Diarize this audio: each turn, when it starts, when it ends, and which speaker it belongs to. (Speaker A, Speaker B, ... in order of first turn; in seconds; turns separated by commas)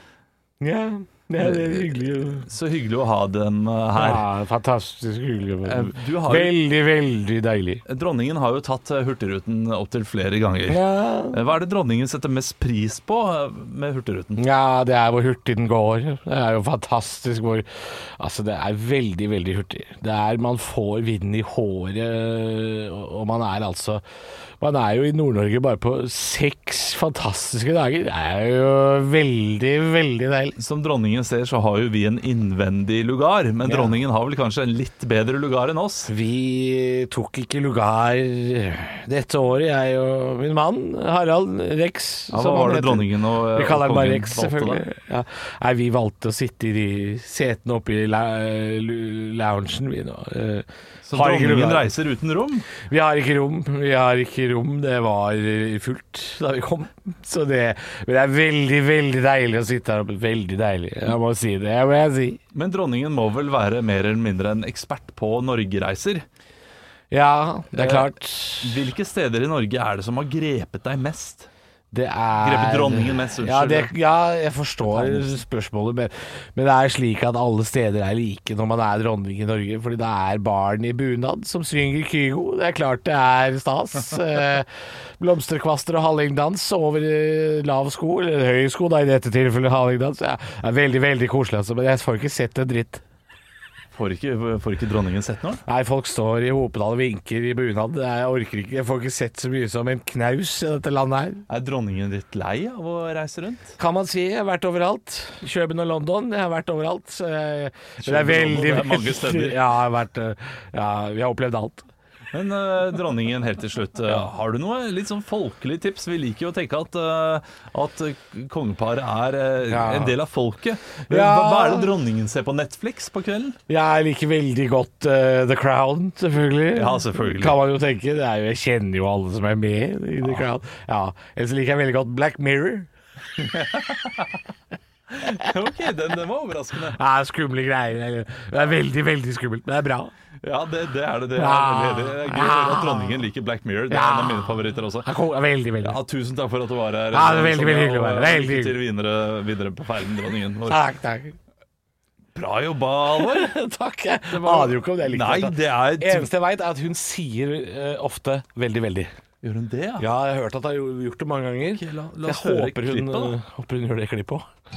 Speaker A: 0.6-2.5, Speaker B: 1.4-4.2, Speaker A: 4.0-7.8, Speaker B: 5.6-6.5, Speaker B: 7.8-14.4, Speaker A: 10.7-11.4, Speaker A: 14.4-24.0, Speaker A: 24.6-30.6, Speaker B: 30.6-36.1, Speaker A: 33.6-33.9, Speaker A: 36.1-51.9, Speaker B: 42.3-44.8, Speaker B: 51.0-52.7, Speaker A: 52.8-62.4, Speaker B: 62.5-66.2, Speaker A: 67.1-68.8, Speaker B: 67.7-71.5, Speaker A: 71.9-84.7, Speaker B: 72.4-73.9, Speaker B: 74.8-75.4, Speaker A: 85.2-93.0, Speaker B: 93.9-95.6, Speaker A: 95.7-101.4, Speaker B: 101.5-103.7, Speaker A: 103.8-111.8, Speaker B: 108.0-109.6, Speaker B: 112.3-123.6, Speaker A: 119.7-120.1, Speaker A: 121.1-121.9, Speaker A: 123.7-132.9, Speaker B: 126.7-127.6, Speaker B: 133.4-134.3, Speaker B: 135.2-137.0, Speaker A: 136.9-140.1, Speaker B: 140.4-145.1, Speaker A: 141.3-143.3, Speaker A: 143.9-146.0, Speaker B: 145.8-150.9, Speaker A: 147.1-148.8, Speaker A: 150.7-151.3, Speaker B: 152.3-153.5, Speaker A: 153.2-159.1, Speaker B: 154.3-156.3, Speaker B: 159.4-160.0, Speaker A: 160.0-164.4, Speaker B: 161.7-163.3